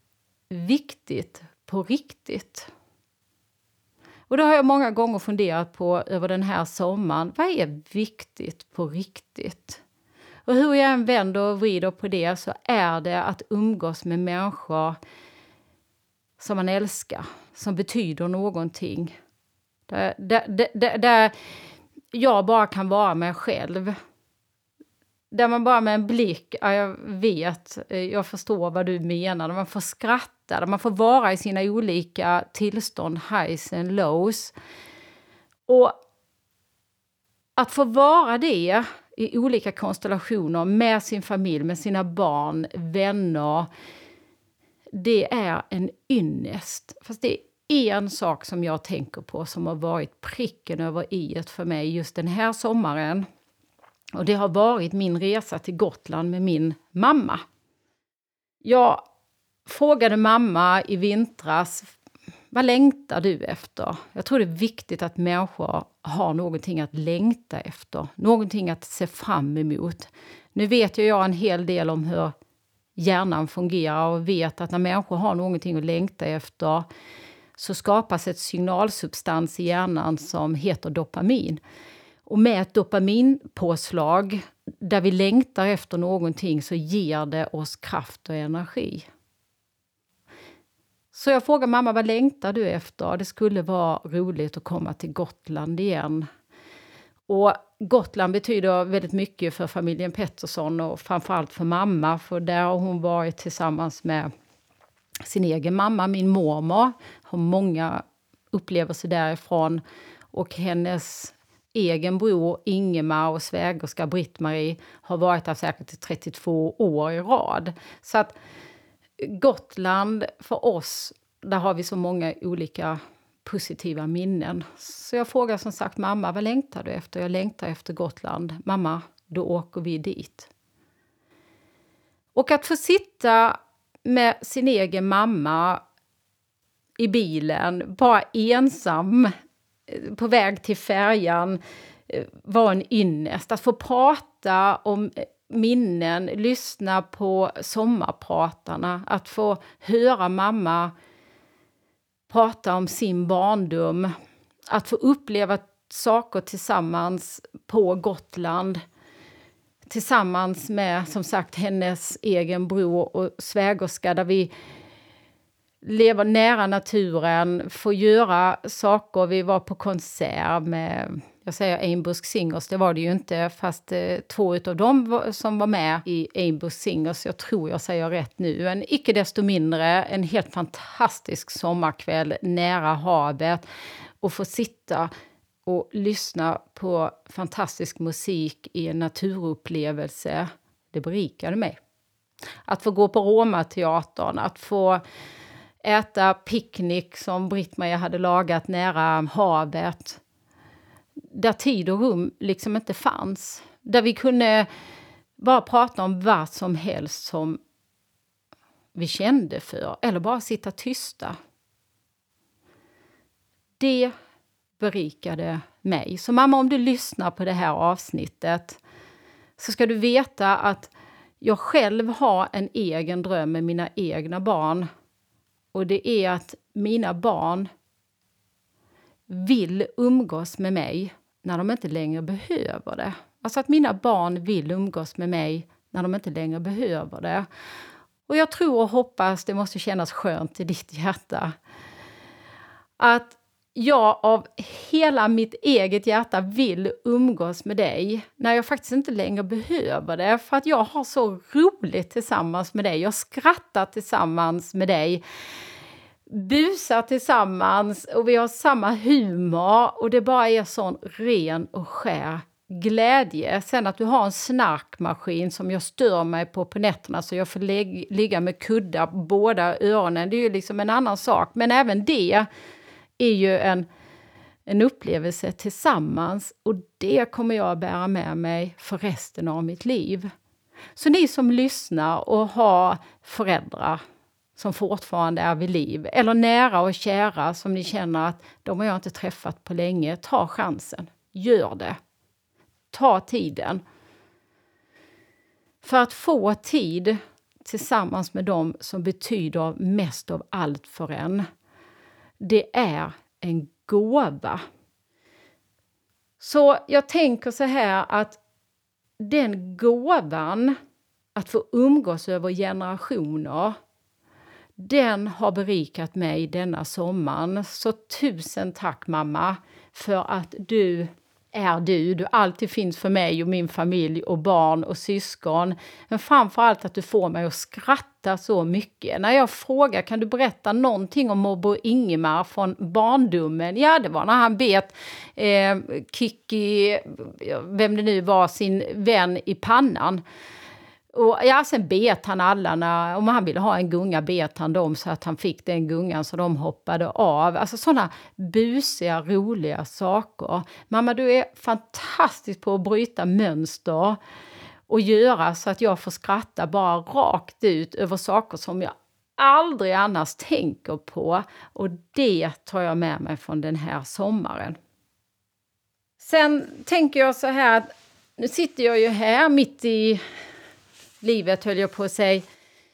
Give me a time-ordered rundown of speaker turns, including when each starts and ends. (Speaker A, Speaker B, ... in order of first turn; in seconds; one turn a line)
Speaker A: 0.5-2.7
Speaker A: 4.3-9.8
Speaker A: 10.5-15.0
Speaker A: 16.4-19.1
Speaker A: 19.9-21.3
Speaker A: 22.1-23.9
Speaker A: 25.3-34.5
Speaker A: 35.7-36.0
Speaker A: 37.6-43.7
Speaker A: 44.9-53.2
Speaker A: 54.1-57.4
Speaker A: 58.6-59.0
Speaker A: 59.6-61.9
Speaker A: 62.5-72.3
Speaker A: 73.0-76.8
Speaker A: 77.6-81.6
Speaker A: 82.3-89.1
Speaker A: 91.1-96.3
Speaker A: 97.3-104.3
Speaker A: 105.2-109.8
Speaker A: 110.3-118.3
Speaker A: 119.2-130.5
Speaker A: 132.3-135.8
Speaker A: 137.0-139.3
Speaker A: 139.9-150.9
Speaker A: 152.3-154.1
Speaker A: 154.7-158.8
Speaker A: 159.9-164.5
Speaker A: 165.8-183.7
Speaker A: 184.2-185.1
Speaker A: 185.7-191.8
Speaker A: 192.7-195.0
Speaker A: 195.8-200.2
Speaker A: 201.3-204.7
Speaker A: 205.4-207.6
Speaker A: 208.9-211.4
Speaker A: 213.8-214.1
Speaker A: 214.8-218.8
Speaker A: 219.6-224.9
Speaker A: 225.7-227.7
Speaker A: 229.3-237.5
Speaker A: 238.3-241.5
Speaker A: 243.0-255.2
Speaker A: 256.3-272.5
Speaker A: 273.2-273.9
Speaker A: 274.7-280.3
Speaker A: 280.9-284.0
Speaker A: 284.6-292.0
Speaker A: 292.9-293.8
Speaker A: 295.8-301.4
Speaker A: 302.4-304.6
Speaker A: 306.4-308.4
Speaker A: 309.2-310.8
Speaker A: 311.3-313.7
Speaker A: 314.8-340.2
Speaker A: 341.1-354.2
Speaker A: 354.9-364.8
Speaker A: 366.2-370.2
Speaker A: 371.2-372.4